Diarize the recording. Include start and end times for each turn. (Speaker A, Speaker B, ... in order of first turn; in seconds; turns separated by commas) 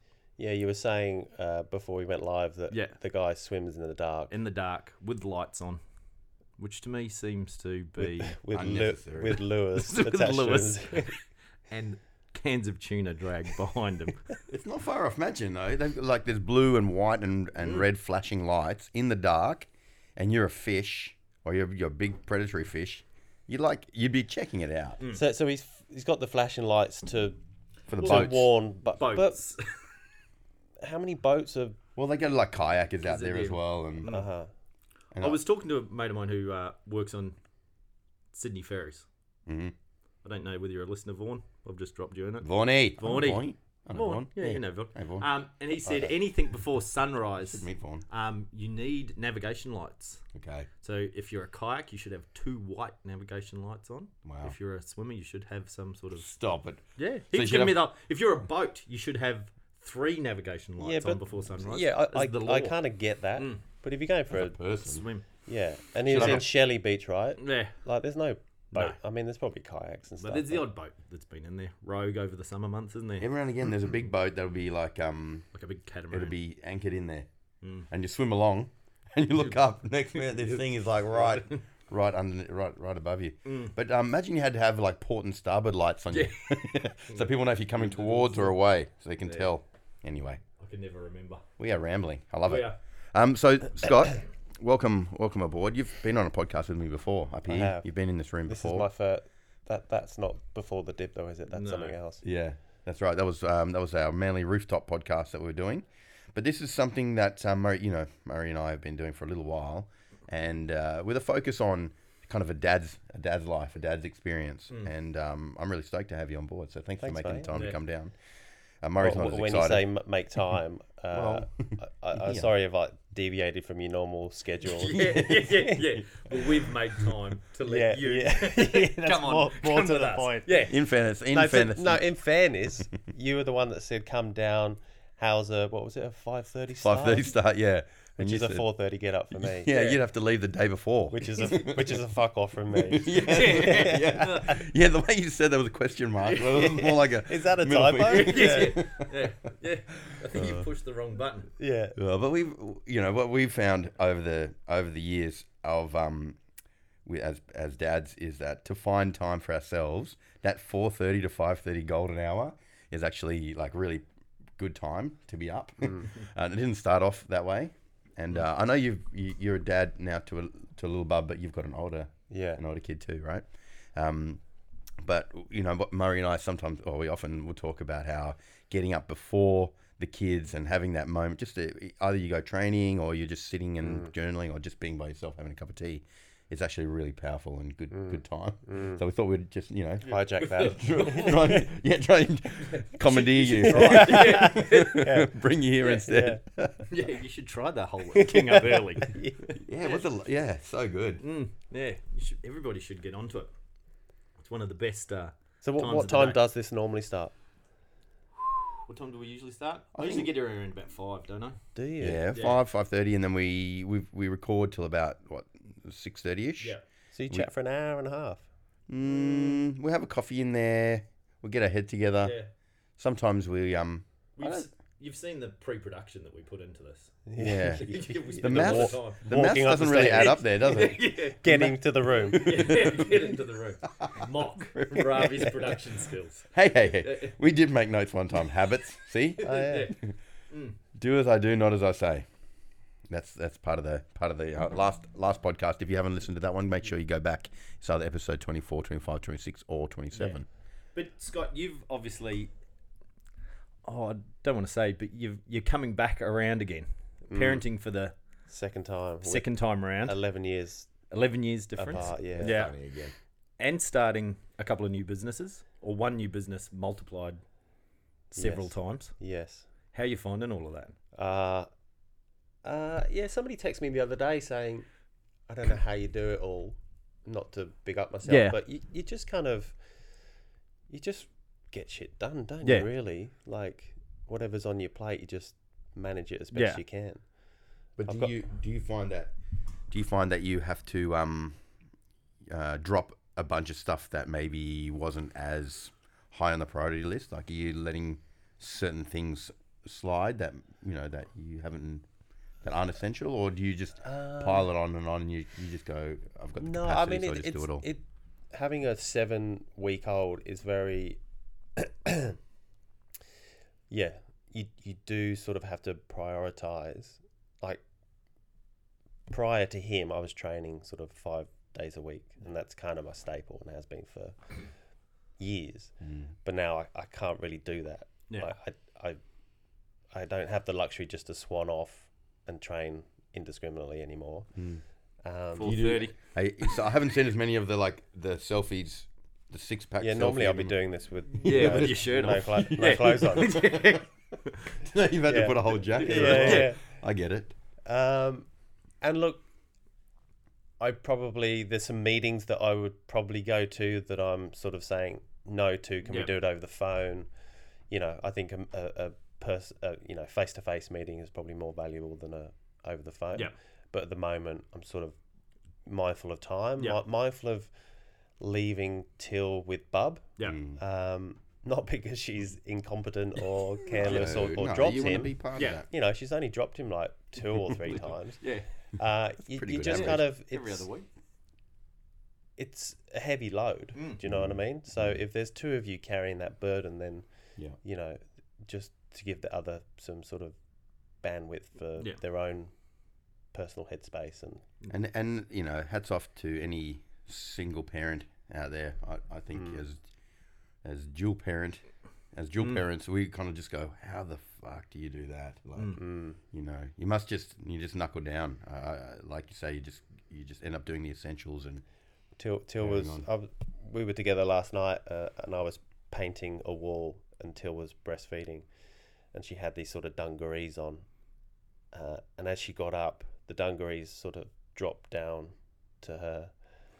Speaker A: 0.4-4.3, Speaker B: 2.7-3.0, Speaker B: 4.3-5.8, Speaker B: 6.6-8.4, Speaker A: 8.0-11.1, Speaker C: 8.5-9.4, Speaker B: 9.8-11.2, Speaker B: 11.7-14.3, Speaker C: 14.5-25.0, Speaker A: 25.1-27.4, Speaker C: 27.9-28.5, Speaker B: 28.0-29.7, Speaker A: 28.0-29.4, Speaker A: 30.8-31.8, Speaker C: 32.0-34.1, Speaker B: 33.0-34.3, Speaker A: 34.1-34.5, Speaker C: 35.1-35.4, Speaker B: 35.2-37.4, Speaker B: 38.3-39.1, Speaker C: 39.5-39.7, Speaker B: 40.2-50.2, Speaker C: 42.4-45.3, Speaker C: 47.4-48.0, Speaker C: 50.4-50.7, Speaker B: 50.8-56.3, Speaker C: 54.2-54.5, Speaker C: 56.2-57.8, Speaker B: 57.0-62.8, Speaker A: 60.8-64.5, Speaker B: 63.4-63.6, Speaker C: 64.3-65.1, Speaker B: 64.8-65.2, Speaker A: 65.5-70.7, Speaker B: 66.1-66.5, Speaker C: 66.1-66.4, Speaker B: 67.4-67.8, Speaker B: 70.2-73.3, Speaker C: 73.2-75.5, Speaker B: 75.5-76.4, Speaker C: 76.1-77.3, Speaker B: 77.6-77.9, Speaker C: 77.9-90.4, Speaker B: 80.2-80.6, Speaker B: 81.2-81.6, Speaker B: 83.5-83.7, Speaker B: 86.1-88.5, Speaker B: 89.2-89.5, Speaker B: 90.6-91.5, Speaker C: 91.6-98.9, Speaker B: 92.5-92.8, Speaker A: 97.5-97.8, Speaker A: 98.5-102.2, Speaker B: 101.5-102.0, Speaker C: 102.2-118.1, Speaker A: 117.0-117.6, Speaker B: 117.5-117.8, Speaker C: 118.8-119.9, Speaker A: 119.0-125.8, Speaker C: 121.1-122.5, Speaker B: 124.8-130.8, Speaker C: 124.8-125.4, Speaker A: 127.7-130.7, Speaker C: 130.7-132.1, Speaker A: 131.3-137.3, Speaker C: 136.8-138.7, Speaker A: 138.2-140.0, Speaker C: 139.4-142.0, Speaker A: 141.1-144.4, Speaker C: 142.7-150.7, Speaker B: 143.1-144.6, Speaker B: 146.3-146.6, Speaker A: 146.4-148.8, Speaker B: 148.1-151.5, Speaker A: 151.6-152.0, Speaker C: 151.9-156.4, Speaker C: 157.1-164.1, Speaker C: 164.6-174.4, Speaker A: 172.3-172.6, Speaker C: 175.0-196.9, Speaker A: 187.9-189.0, Speaker A: 190.1-191.6, Speaker B: 190.1-191.6, Speaker B: 192.7-195.2, Speaker A: 193.7-195.3, Speaker A: 195.8-196.4, Speaker B: 196.9-199.1, Speaker A: 198.1-199.6, Speaker C: 199.5-201.2, Speaker B: 201.2-203.5, Speaker B: 204.4-206.4, Speaker A: 205.6-207.3, Speaker B: 208.7-211.6, Speaker C: 209.9-210.3, Speaker A: 211.8-212.3, Speaker C: 212.0-216.8, Speaker B: 212.3-212.6, Speaker A: 217.1-218.5, Speaker C: 218.9-222.4, Speaker B: 222.2-222.5, Speaker C: 223.0-224.7, Speaker B: 224.4-229.3, Speaker A: 227.3-233.0, Speaker C: 227.4-231.7, Speaker B: 230.0-231.7, Speaker C: 232.2-233.1, Speaker B: 232.3-237.4, Speaker C: 234.0-235.7, Speaker C: 236.5-240.2, Speaker A: 239.4-239.9, Speaker B: 239.4-239.9, Speaker B: 240.5-240.8, Speaker C: 240.9-242.2, Speaker C: 243.1-250.4, Speaker B: 250.1-250.4, Speaker B: 250.9-252.5, Speaker B: 253.8-258.1, Speaker A: 257.3-257.6, Speaker A: 258.5-259.5, Speaker B: 259.2-260.2, Speaker A: 260.0-260.9, Speaker B: 261.1-262.7, Speaker A: 261.8-262.7, Speaker C: 262.4-263.1, Speaker B: 263.6-267.4, Speaker A: 268.3-269.7, Speaker B: 268.4-269.1, Speaker B: 269.9-270.9, Speaker A: 271.1-271.7, Speaker A: 272.6-274.9, Speaker A: 275.5-279.8, Speaker B: 278.3-278.6, Speaker A: 280.9-287.2, Speaker B: 286.5-286.8, Speaker C: 288.0-289.3, Speaker A: 288.1-288.3, Speaker C: 289.9-291.6, Speaker C: 292.5-302.1, Speaker C: 302.6-307.9, Speaker A: 304.0-304.7, Speaker A: 306.6-311.2, Speaker A: 311.8-312.4, Speaker A: 313.9-317.8, Speaker A: 319.3-324.6, Speaker A: 325.4-329.2, Speaker C: 326.0-326.3, Speaker A: 330.1-334.5, Speaker C: 334.6-334.8, Speaker A: 335.2-335.8, Speaker B: 335.6-336.1, Speaker C: 335.6-340.8, Speaker A: 340.0-343.6, Speaker C: 341.3-344.1, Speaker B: 341.4-344.1, Speaker C: 344.7-347.6, Speaker A: 345.3-346.8, Speaker B: 345.9-346.7, Speaker A: 347.9-348.5, Speaker A: 349.0-349.4, Speaker A: 350.8-357.3, Speaker A: 357.9-365.2, Speaker A: 365.9-367.7, Speaker A: 368.4-378.4, Speaker C: 370.4-370.8, Speaker B: 374.0-374.4, Speaker C: 374.0-375.9, Speaker B: 378.4-378.7, Speaker A: 379.0-380.9, Speaker C: 379.5-380.3, Speaker B: 379.8-381.1, Speaker A: 382.6-387.3, Speaker B: 384.0-384.2, Speaker C: 384.3-385.2, Speaker A: 387.8-390.6, Speaker A: 391.2-392.7, Speaker A: 393.5-394.6, Speaker C: 394.9-400.0, Speaker A: 399.6-399.8, Speaker C: 400.8-411.8, Speaker A: 405.9-406.4, Speaker A: 412.4-418.7, Speaker C: 412.8-413.3, Speaker A: 419.3-421.1, Speaker A: 421.9-426.5